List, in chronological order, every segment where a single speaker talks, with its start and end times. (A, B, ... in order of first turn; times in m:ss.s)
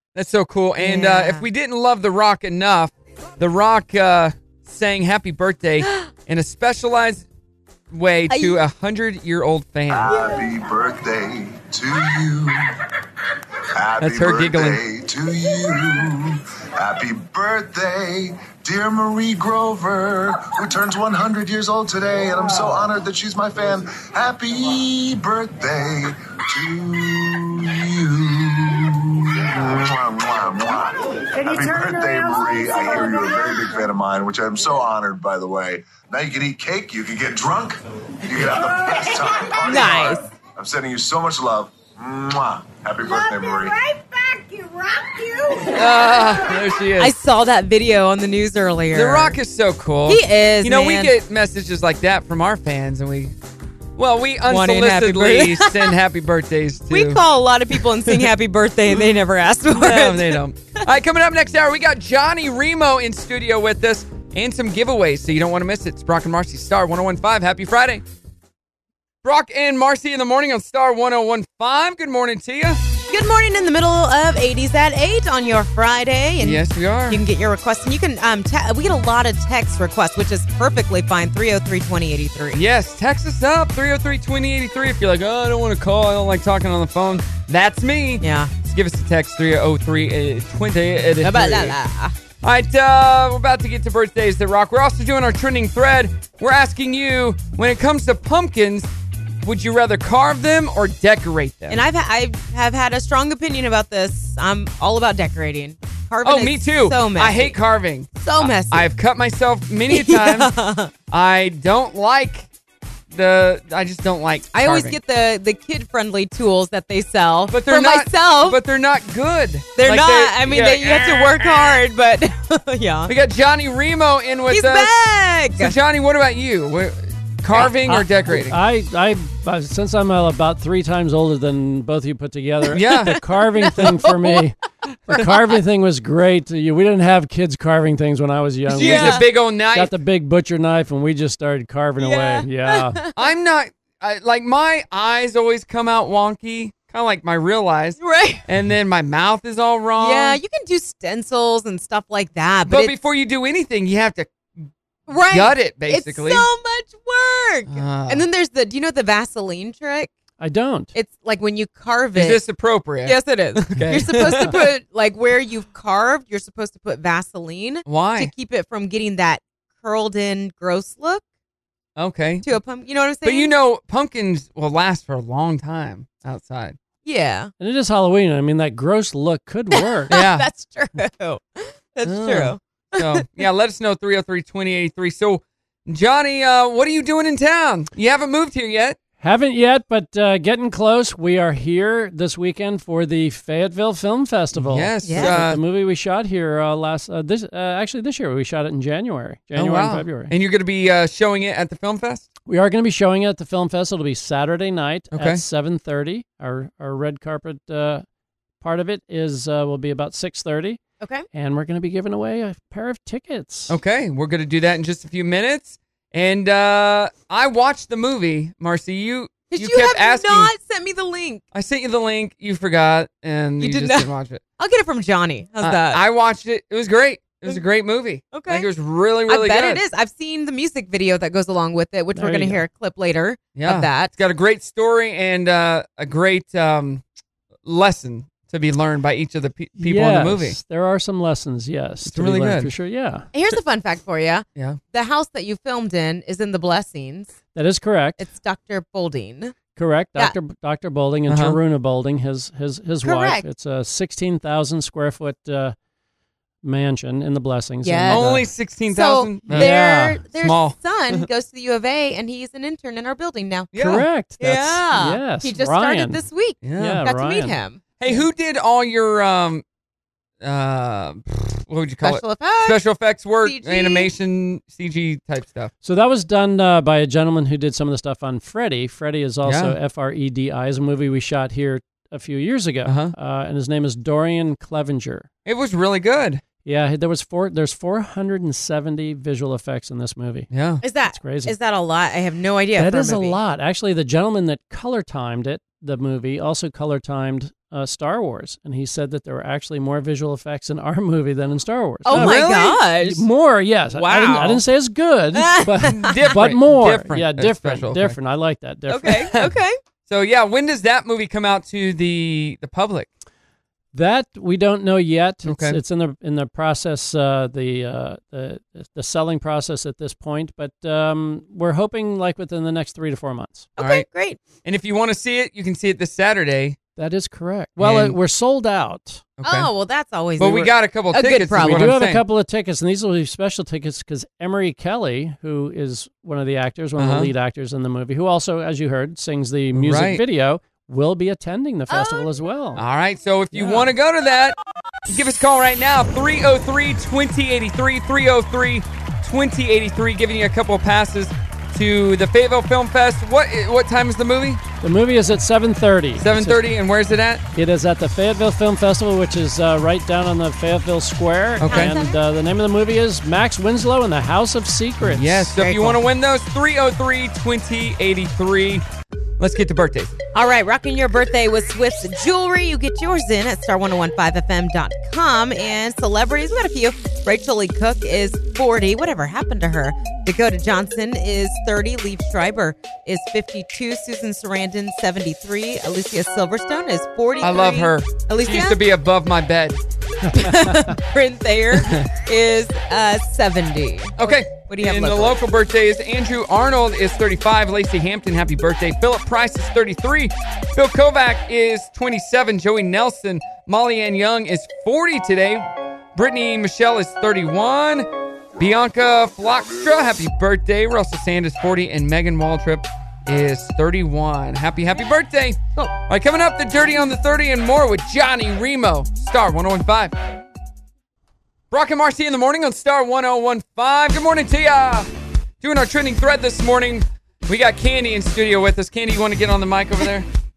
0:00.1-0:07.2 A
0:00.8-0:01.5 B
0:07.9-0:10.2 A
0:08.3-0:08.6 B
0:09.9-0:12.7 C
0:13.7-0:43.8 C
0:14.0-0:14.8 A
0:31.5-0:33.2 D
0:39.6-0:40.2 B
0:43.0-0:45.8 D
0:45.7-0:47.1 A
0:47.0-0:49.4 B
0:48.9-0:53.3 A
0:50.0-0:51.1 B
0:54.0-0:57.2 A
0:54.5-0:55.9 B
0:56.9-1:00.8 B
0:58.0-0:58.3 A
0:59.7-1:08.0 A
1:09.2-1:12.8 A
1:13.1-1:22.6 B
1:16.4-1:17.2 A
1:22.5-1:31.8 A
1:28.2-1:28.5 B
1:31.2-1:32.1 B
1:32.4-1:38.9 A
1:39.4-1:41.8 A
1:41.7-1:47.6 B
1:46.2-1:50.5 A
1:48.2-1:48.9 B
1:49.9-1:50.9 B
1:51.1-1:52.5 A
1:53.1-1:55.0 A
1:54.5-1:58.6 B
1:57.5-2:01.8 A
1:59.8-2:03.1 B
2:03.1-2:04.9 A
2:04.5-2:05.7 B
2:05.6-2:08.6 A
2:07.6-2:14.6 E
2:12.7-2:13.2 A
2:13.6-2:14.4 B
2:15.1-2:23.0 E
2:18.7-2:19.9 A
2:18.7-2:19.2 B
2:22.0-2:23.1 B
2:23.1-2:30.4 A
2:28.0-2:28.4 B
2:30.0-2:32.9 B
2:32.6-2:34.3 A
2:35.1-2:40.1 B
2:35.2-2:36.5 A
2:37.7-2:38.2 A
2:40.4-2:40.9 E
2:40.9-2:42.4 B
2:42.1-2:44.7 A
2:43.0-2:51.2 B
2:47.8-2:48.3 A
2:52.0-2:52.5 A
2:52.4-2:53.5 B
2:53.2-2:56.8 A
2:57.0-2:57.5 B
2:57.6-3:00.1 E
2:59.7-3:03.3 B
3:00.1-3:00.4 A
3:02.0-3:09.0 A
3:09.2-3:20.3 E
3:14.5-3:15.6 A
3:15.0-3:15.4 B
3:19.5-3:22.2 A
3:22.5-3:28.0 E
3:25.1-3:25.4 A
3:28.6-3:30.8 E
3:31.0-3:31.2 B
3:31.3-3:33.7 E
3:33.7-3:40.5 A
3:39.5-3:41.4 B
3:41.5-3:44.4 A
3:43.6-3:46.0 B
3:45.6-3:49.8 A
3:48.3-3:48.7 B
3:49.3-3:54.1 B
3:52.2-3:52.6 E
3:53.5-3:57.0 A
3:57.6-4:00.6 A
3:59.8-4:03.2 E
4:02.0-4:02.7 A
4:03.3-4:07.3 B
4:07.5-4:08.2 E
4:08.2-4:09.6 B
4:09.8-4:15.8 E
4:11.3-4:11.6 A
4:13.0-4:13.4 B
4:16.6-4:18.5 E
4:17.8-4:23.7 B
4:18.1-4:19.8 A
4:19.5-4:20.2 E
4:20.3-4:20.8 A
4:23.7-4:24.0 A
4:23.7-4:26.2 E
4:24.4-4:28.2 B
4:26.6-4:27.0 A
4:26.7-4:27.6 E
4:28.0-4:29.6 A
4:30.4-4:35.7 A
4:32.0-4:32.8 B
4:33.4-4:34.1 B
4:35.8-4:45.3 E
4:39.4-4:39.8 A
4:42.8-4:43.1 A
4:45.4-4:46.4 A
4:46.6-4:50.5 E
4:50.5-4:50.8 A
4:50.8-4:53.4 B
4:51.1-4:51.5 E
4:52.8-5:09.3 E
5:02.0-5:03.2 B
5:02.1-5:02.4 A
5:03.9-5:04.6 B
5:05.3-5:06.2 B
5:05.8-5:08.2 A
5:08.9-5:09.8 B
5:10.1-5:13.1 A
5:13.9-5:23.7 E
5:15.4-5:15.8 A
5:23.8-5:24.4 B
5:23.8-5:24.0 A
5:24.6-5:26.8 A
5:27.0-5:29.3 E
5:27.8-5:28.2 A
5:29.4-5:29.7 A
5:29.4-5:31.9 B
5:30.4-5:32.2 A
5:31.5-5:42.8 E
5:37.0-5:37.3 A
5:39.7-5:40.2 A
5:41.9-5:42.2 B
5:42.8-5:44.6 A
5:43.5-5:43.9 E
5:45.1-5:54.6 A
5:54.8-5:56.6 E
5:56.2-5:57.4 A
5:57.5-6:05.9 E
6:01.6-6:02.0 A
6:01.6-6:02.2 B
6:05.0-6:08.8 A
6:09.4-6:10.2 A
6:10.3-6:28.8 B
6:27.4-6:29.8 A
6:30.3-6:35.4 B
6:30.5-6:30.9 E
6:31.7-6:32.1 A
6:34.2-7:00.1 A
7:01.7-7:05.1 A
7:05.6-7:10.3 A